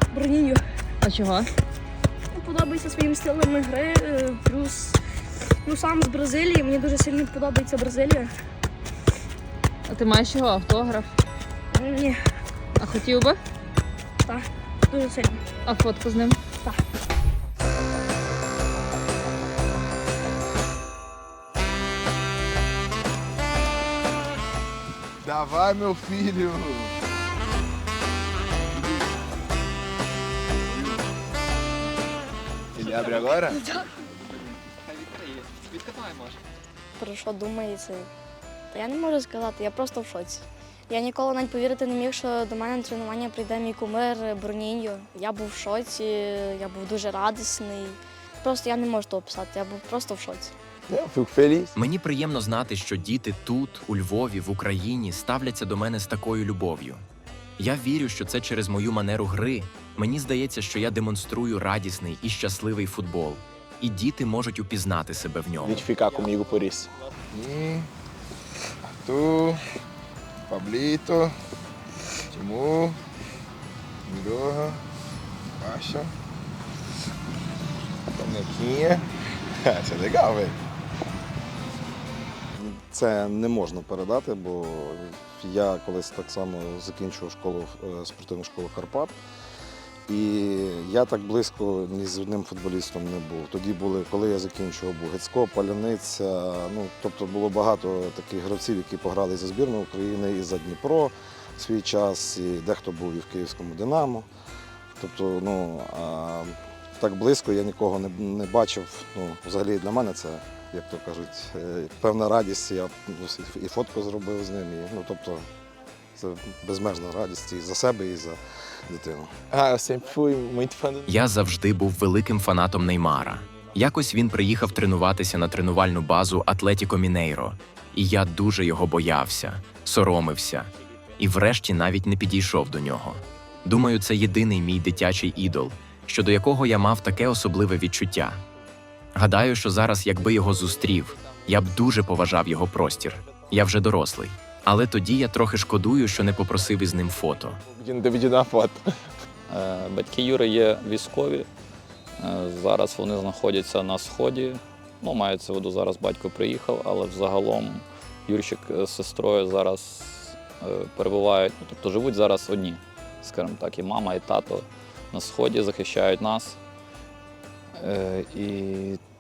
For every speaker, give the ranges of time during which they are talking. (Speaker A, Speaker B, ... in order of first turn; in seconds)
Speaker A: 0.1-0.6, 2.4-4.9, 5.7-8.3, 14.9-15.3, 37.0-38.1, 38.7-50.5
Speaker B: 1.0-1.5, 9.9-11.1, 12.8-13.4, 15.6-16.4
Speaker C: 2.6-5.0, 5.7-8.2, 11.8-12.2, 14.9-15.6
Speaker D: 25.2-26.9, 32.8-33.6, 50.9-51.7, 65.6-67.9, 68.9-69.6, 70.5-71.3, 72.3-73.0, 74.1-74.8, 75.6-76.1, 78.1-80.6, 119.5-121.2, 147.7-149.1
Speaker E: 51.8-57.0, 57.6-65.9, 121.1-138.4, 139.2-147.6
Speaker F: 82.6-89.1, 90.1-104.3, 105.0-115.5, 116.2-119.3
Speaker G: 149.5-151.5, 152.2-166.6, 167.8-169.0